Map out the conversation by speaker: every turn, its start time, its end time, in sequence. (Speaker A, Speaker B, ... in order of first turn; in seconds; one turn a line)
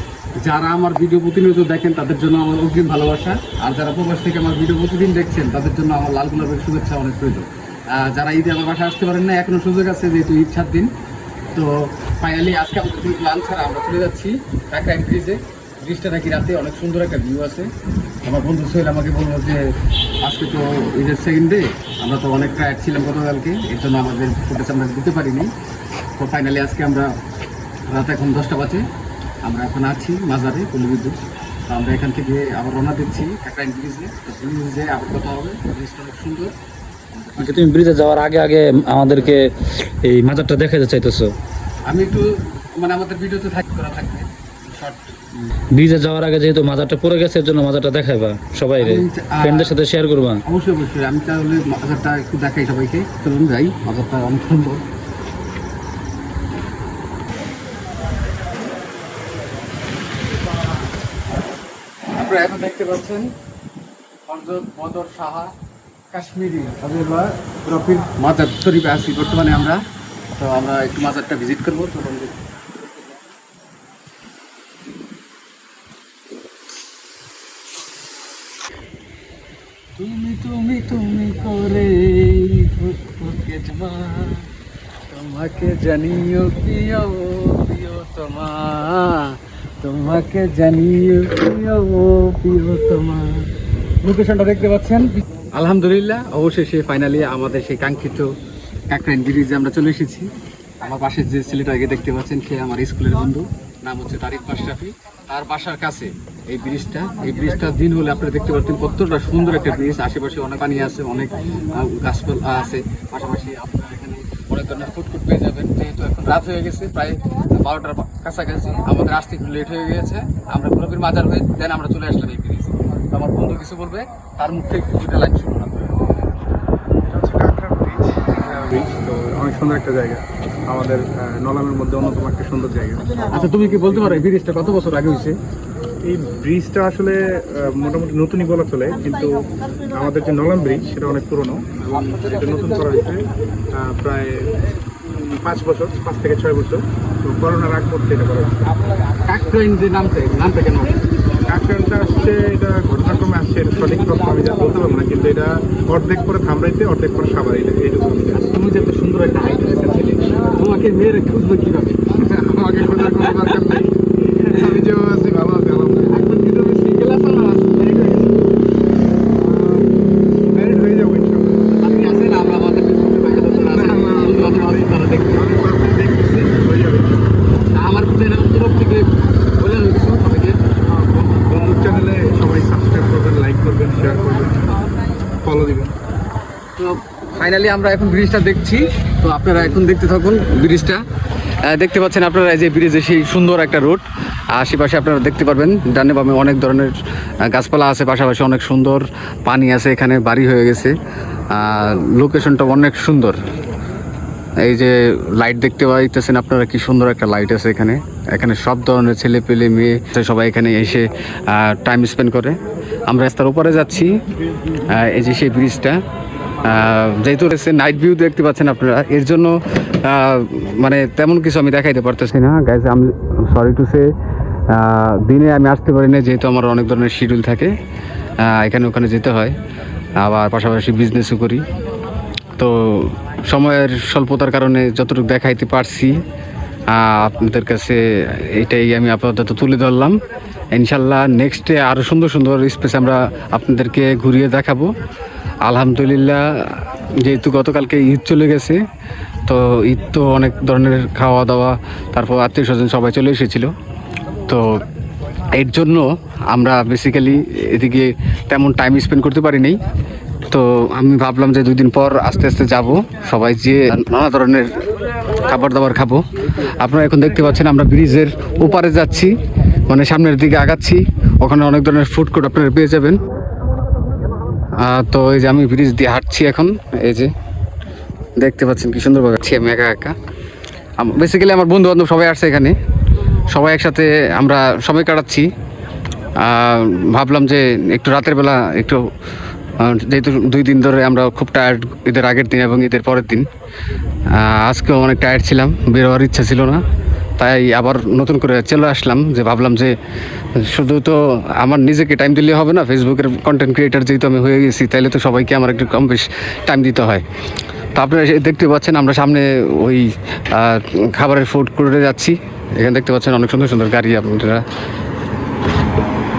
Speaker A: 0.4-10.9
Speaker A: 11.5-17.7
Speaker A: 18.2-25.5
Speaker A: 26.1-27.1
Speaker A: 27.9-28.9
Speaker A: 29.4-36.5
Speaker A: 37.1-37.6
Speaker B: 37.4-41.3
Speaker A: 41.9-45.1
Speaker B: 45.7-50.4
Speaker A: 48.8-49.8
Speaker A: 50.4-54.8
Speaker A: 62.1-63.3
Speaker A: 64.2-65.5
Speaker A: 66.1-69.8
Speaker A: 70.3-72.4
Speaker A: 80.0-84.5
Speaker A: 85.1-93.5
Speaker A: 94.0-98.3
Speaker A: 98.9-125.9
Speaker C: 127.1-133.1
Speaker A: 133.3-135.4
Speaker C: 136.0-144.5
Speaker C: 145.1-148.5
Speaker A: 149.2-151.0
Speaker C: 151.5-158.4
Speaker A: 158.4-163.9
Speaker C: 162.3-166.2
Speaker A: 164.4-164.8
Speaker A: 165.9-168.4
Speaker C: 170.5-171.7
Speaker A: 171.7-175.4
Speaker C: 173.7-177.2
Speaker A: 177.7-180.6
Speaker C: 180.9-184.8
Speaker C: 185.4-185.9
Speaker A: 186.8-191.0
Speaker A: 191.6-200.9
Speaker A: 201.5-203.4
Speaker A: 204.6-214.1
Speaker A: 214.8-216.0
Speaker A: 216.6-224.1
Speaker A: 224.7-227.7
Speaker A: 228.4-229.6
Speaker A: 230.2-231.7
Speaker A: 232.6-236.2
Speaker A: 236.9-240.2
Speaker A: 240.7-244.9
Speaker A: 245.7-248.8
Speaker A: 249.5-253.7
Speaker A: 254.5-254.8
Speaker A: 255.5-259.8
Speaker A: 260.5-264.9
Speaker A: 265.4-266.2
Speaker A: 266.8-273.2
Speaker A: 274.8-277.3
Speaker A: 278.4-280.2
Speaker A: 281.0-282.8
Speaker A: 283.5-285.5
Speaker A: 286.4-289.1
Speaker A: 289.8-293.5
Speaker A: 294.3-296.8
Speaker A: 297.4-300.0
Speaker A: 300.6-307.2
Speaker A: 307.9-314.7